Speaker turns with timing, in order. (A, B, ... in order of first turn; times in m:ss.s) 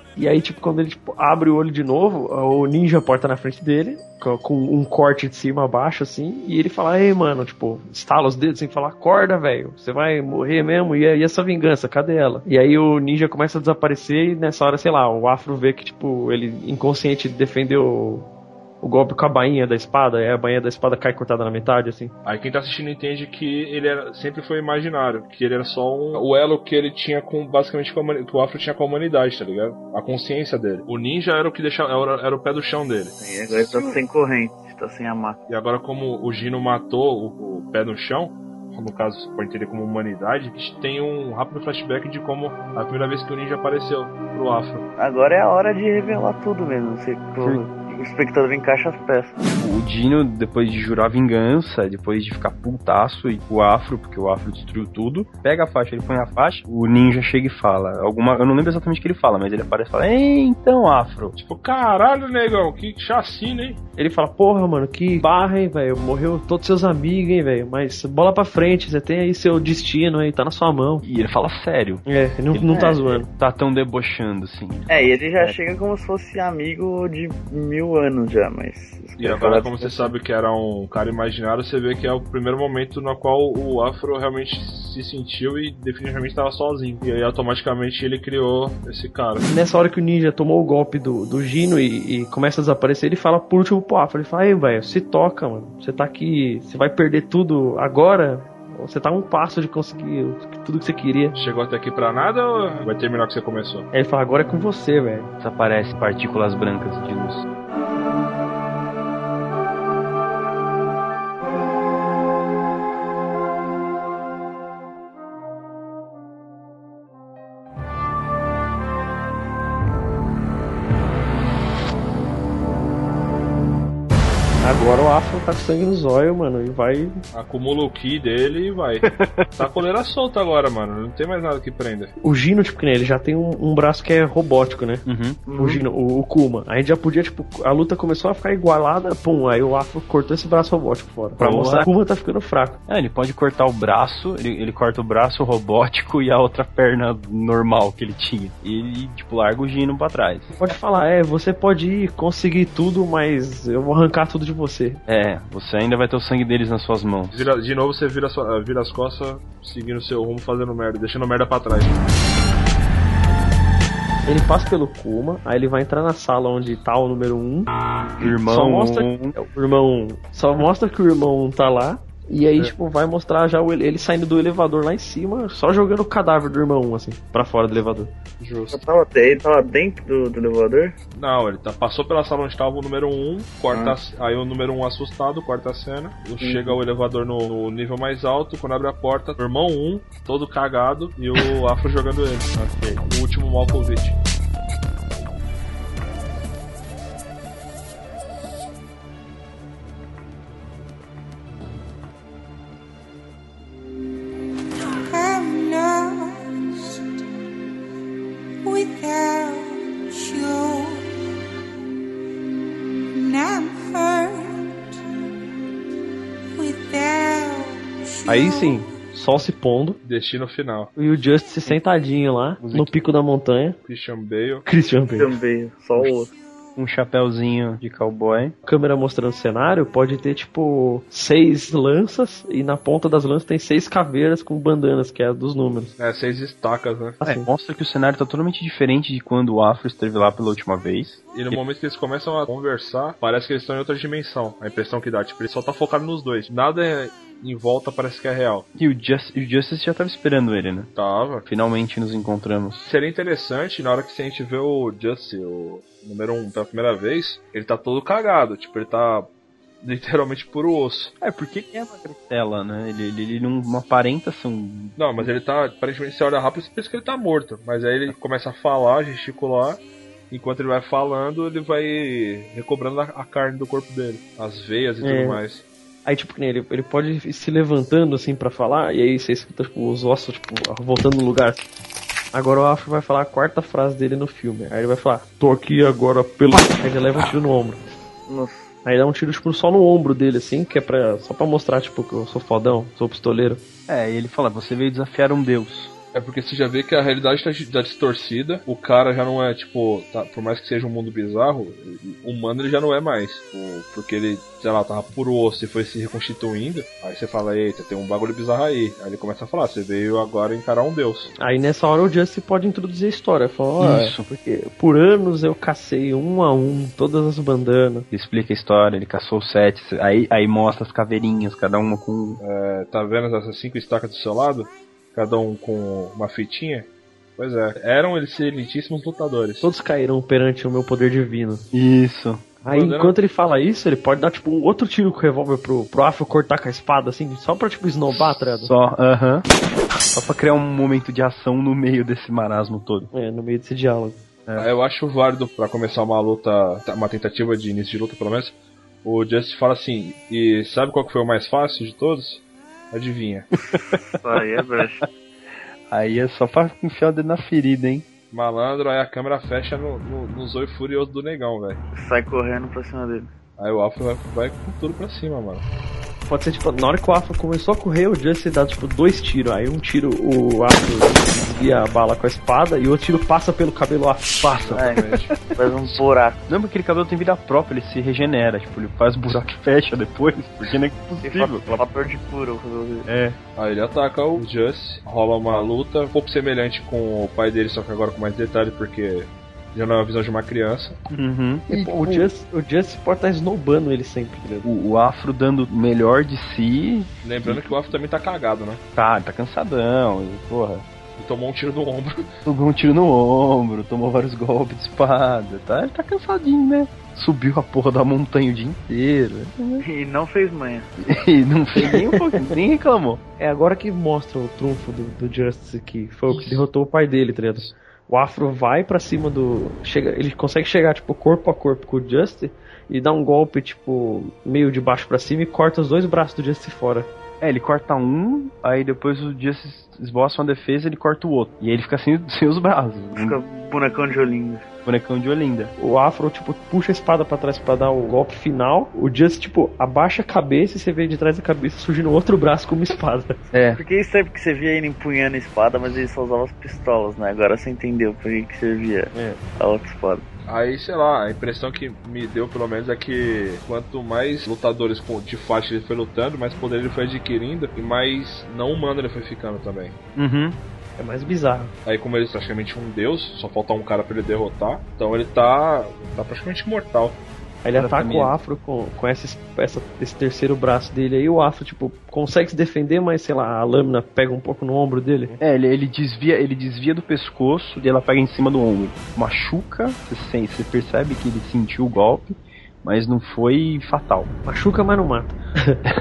0:00.2-0:18.2 A
0:18.8-0:22.1 A
0:22.2-0:34.0 B
0:33.2-0:35.4 C
0:35.5-0:44.8 B
0:45.0-0:49.4 C
0:47.4-0:47.6 D
0:49.6-1:01.3 D
1:01.4-1:03.8 B
1:04.0-1:11.0 A
1:11.0-1:15.6 D
1:12.0-1:13.3 A
1:12.7-1:13.0 C
1:14.9-1:20.1 C
1:19.2-1:29.4 B
1:29.5-1:41.3 A
1:41.3-1:43.9 B
1:43.9-1:45.3 A
1:45.4-1:47.4 D
2:04.6-2:07.2 A
2:07.3-2:12.1 B
2:09.0-2:09.8 D
2:12.2-2:15.0 A
2:15.0-2:15.4 D
2:15.4-2:15.8 C
2:15.6-2:22.8 A
2:21.4-2:21.9 D
2:22.9-2:30.5 D
2:30.5-2:35.0 A
2:35.1-2:37.5 D
2:37.3-2:42.0 B
2:44.2-2:47.7 A
2:48.2-2:49.3 D
2:48.2-2:58.1 A
2:58.4-2:58.8 B
2:58.7-3:01.0 C
3:01.1-3:14.2 B
3:06.4-3:06.8 C
3:12.6-3:13.0 D
3:24.8-3:27.0 E
3:28.6-3:31.0 E
3:33.1-3:34.8 E
3:36.5-3:38.8 E
3:38.3-3:40.0 A
3:40.0-3:40.9 B
3:41.0-3:43.8 A
3:42.6-3:42.9 D
3:43.8-3:44.6 B
3:44.6-3:45.3 A
3:45.1-3:46.3 C
3:46.8-3:48.5 D
3:48.6-3:55.9 A
3:56.0-3:57.2 B
3:57.2-3:57.5 A
3:57.2-4:01.6 D
4:01.3-4:08.6 B
4:08.8-4:10.9 D
4:11.0-4:11.4 B
4:11.4-4:12.9 D
4:12.8-4:19.3 B
4:19.8-4:21.1 B
4:21.2-4:25.3 D
4:25.0-4:35.6 B
4:35.0-4:35.4 A
4:36.0-4:41.7 A
4:42.3-4:47.8 A
4:48.3-4:48.7 C
4:48.8-4:53.6 A
4:53.9-4:55.9 D
4:56.1-5:11.3 B
5:11.4-5:18.0 A
5:13.8-5:14.3 D
5:18.1-5:22.4 D
5:22.4-5:29.7 B
5:29.6-5:31.6 A
5:31.7-5:32.5 D
5:32.6-5:38.7 A
5:32.7-5:33.1 B
5:38.1-5:39.4 D
5:40.1-5:43.1 D
5:43.1-5:44.2 A
5:44.6-5:53.5 B
5:53.7-5:55.0 D
5:53.9-5:55.0 C
5:55.9-5:58.0 D
5:58.3-6:01.8 B
6:01.9-6:03.3 C
6:03.6-6:05.6 B
6:06.3-6:14.6 A
6:14.4-6:21.7 D
6:14.6-6:15.3 B
6:14.8-6:16.4 C
6:21.2-6:23.1 C
6:23.0-6:23.4 D
6:23.6-6:31.0 B
6:31.1-6:32.3 D
6:31.7-6:34.7 A
6:34.6-6:37.7 D
6:37.2-6:38.8 B
6:38.9-6:40.8 D
6:41.2-6:42.3 B
6:42.4-6:49.8 D
6:49.8-6:50.9 C
6:51.0-6:53.2 D
6:51.8-6:52.4 A
6:53.4-7:07.1 A
7:07.4-7:13.4 D
7:13.1-7:14.6 C
7:14.8-7:15.7 D
7:15.8-7:23.4 A
7:23.5-7:23.8 D
7:23.7-7:30.2 C
7:29.1-7:29.4 A
7:30.4-7:39.9 B
7:40.2-7:40.6 D
7:41.0-7:41.7 A
7:41.8-7:47.2 B
7:47.6-7:55.4 A
7:47.7-7:48.4 D
7:55.4-8:04.3 D
8:04.4-8:05.8 A